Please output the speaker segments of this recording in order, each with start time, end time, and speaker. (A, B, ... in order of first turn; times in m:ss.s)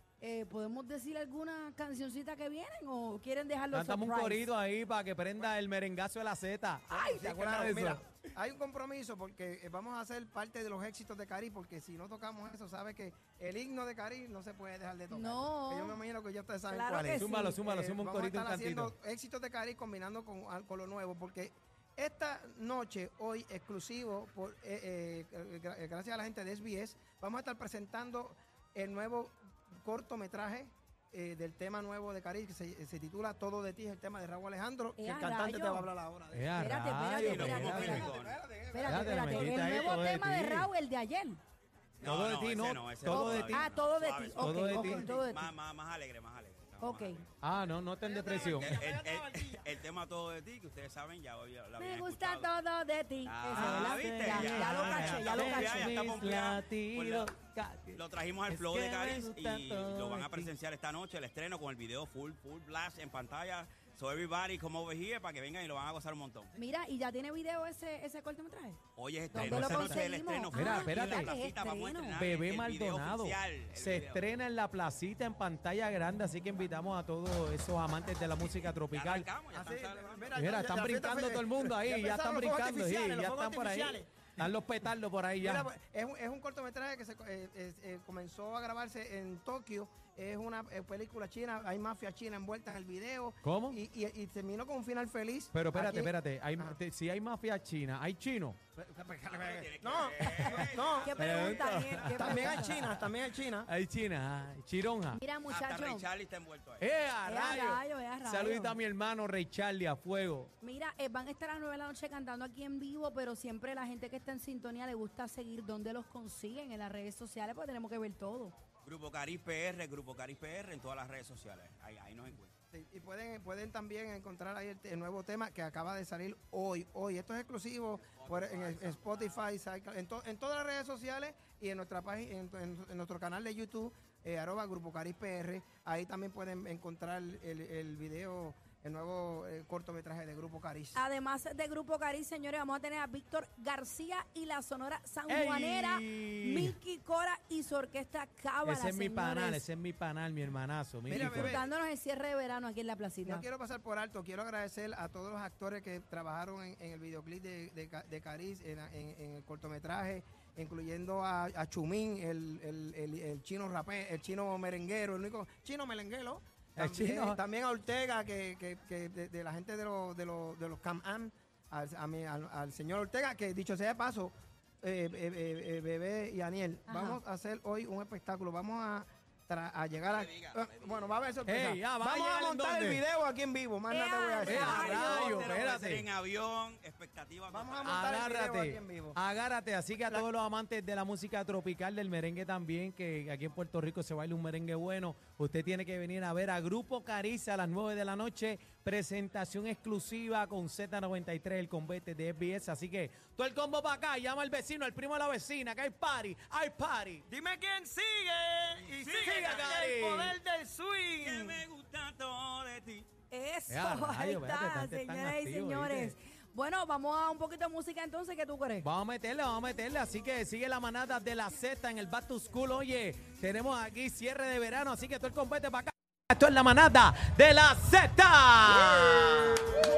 0:00.2-0:04.5 A
0:03.7-0:08.0 B
0:06.9-0:07.4 A
0:06.9-0:36.7 C
0:15.1-0:16.0 A
0:16.7-0:17.6 A
0:17.2-0:18.9 B
0:35.0-0:35.9 A
0:36.3-0:38.1 B
0:36.6-0:38.1 A
0:37.2-0:38.4 D
0:37.4-0:40.0 C
0:38.7-0:41.4 A
0:38.8-0:40.7 B
0:42.0-0:47.3 D
0:42.0-0:43.8 B
0:43.1-0:45.5 A
0:44.4-0:45.1 B
0:44.7-0:45.2 C
0:46.8-0:47.2 A
0:47.4-0:48.9 B
0:48.0-0:49.7 C
0:48.3-0:52.5 D
0:51.8-0:55.9 A
0:53.2-0:57.4 D
0:53.5-1:00.5 B
0:58.0-1:06.6 D
1:06.6-1:08.8 A
1:09.0-1:14.2 D
1:09.3-1:12.2 A
1:09.4-1:11.3 B
1:12.2-1:19.3 B
1:18.4-1:20.3 D
1:19.5-1:24.5 C
1:20.4-1:25.7 B
1:25.4-1:36.8 C
1:33.4-1:33.8 B
1:35.5-1:38.6 B
1:38.8-1:41.2 C
1:39.2-1:41.7 D
1:40.4-1:42.8 A
1:41.2-1:43.1 B
1:42.0-1:43.7 C
1:43.6-1:45.2 B
1:45.1-1:46.1 A
1:45.5-1:46.9 D
1:46.8-1:50.5 B
1:47.2-1:48.8 A
1:50.6-1:58.6 A
1:58.8-2:02.5 D
2:02.7-2:21.0 C
2:08.1-2:09.4 D
2:21.0-2:29.6 A
2:25.3-2:26.8 B
2:28.6-2:31.6 B
2:31.1-2:31.7 C
2:31.1-2:33.4 A
2:33.2-3:05.3 C
2:46.8-2:47.4 B
2:56.9-2:57.2 A
3:00.1-3:01.2 D
3:01.5-3:03.0 B
3:03.9-3:05.5 A
3:04.4-3:06.1 B
3:04.5-3:08.0 D
3:07.5-3:09.2 C
3:07.8-3:27.3 B
3:27.3-3:31.6 C
3:28.8-3:29.9 D
3:29.2-3:30.4 B
3:31.2-3:33.1 D
3:33.3-3:38.9 A
3:33.7-3:36.2 B
3:38.8-3:49.8 B